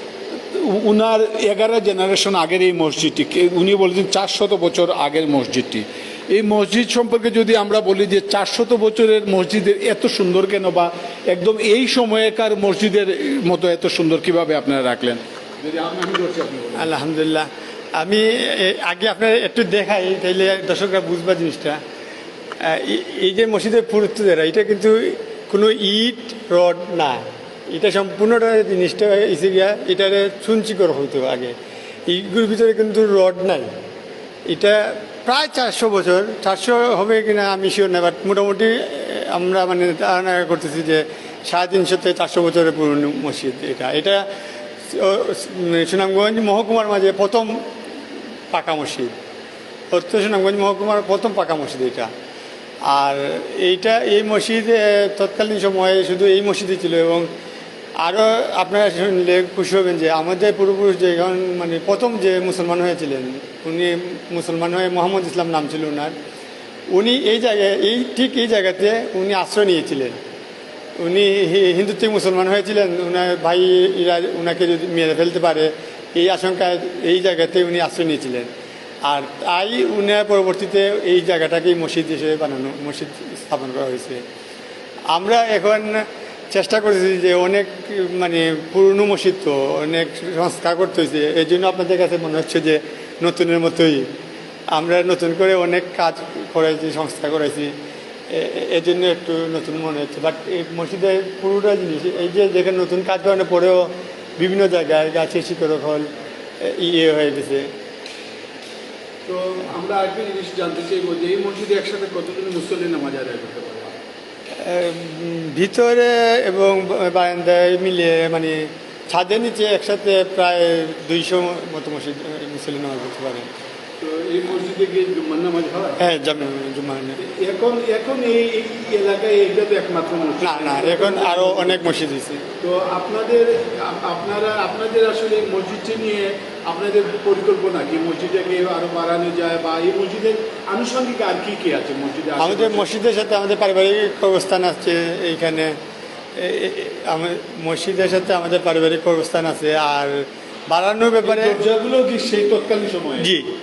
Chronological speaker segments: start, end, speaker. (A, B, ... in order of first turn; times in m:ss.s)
0:00.5-0:16.9 A
0:16.8-0:21.8 B
0:22.6-0:31.5 B
0:32.1-0:33.7 B
0:34.5-0:44.2 B
0:44.9-0:47.5 B
0:48.5-0:49.1 B
0:49.9-0:52.1 B
0:52.9-0:57.3 B
0:58.0-1:06.1 B
1:06.9-1:10.2 B
1:11.0-1:18.5 B
1:19.0-1:24.2 B
1:25.1-1:26.0 B
1:26.5-1:34.0 B
1:34.7-1:37.7 B
1:38.3-1:46.1 B
1:46.6-1:47.7 B
1:49.2-1:54.0 A
1:54.6-2:03.5 B
2:04.0-2:06.0 A
2:06.0-2:07.2 B
2:07.2-2:11.9 A
2:10.4-2:12.4 B
2:12.6-2:22.9 A
2:22.4-2:25.8 B
2:26.4-2:31.6 B
2:31.2-2:33.3 A
2:33.2-2:33.4 B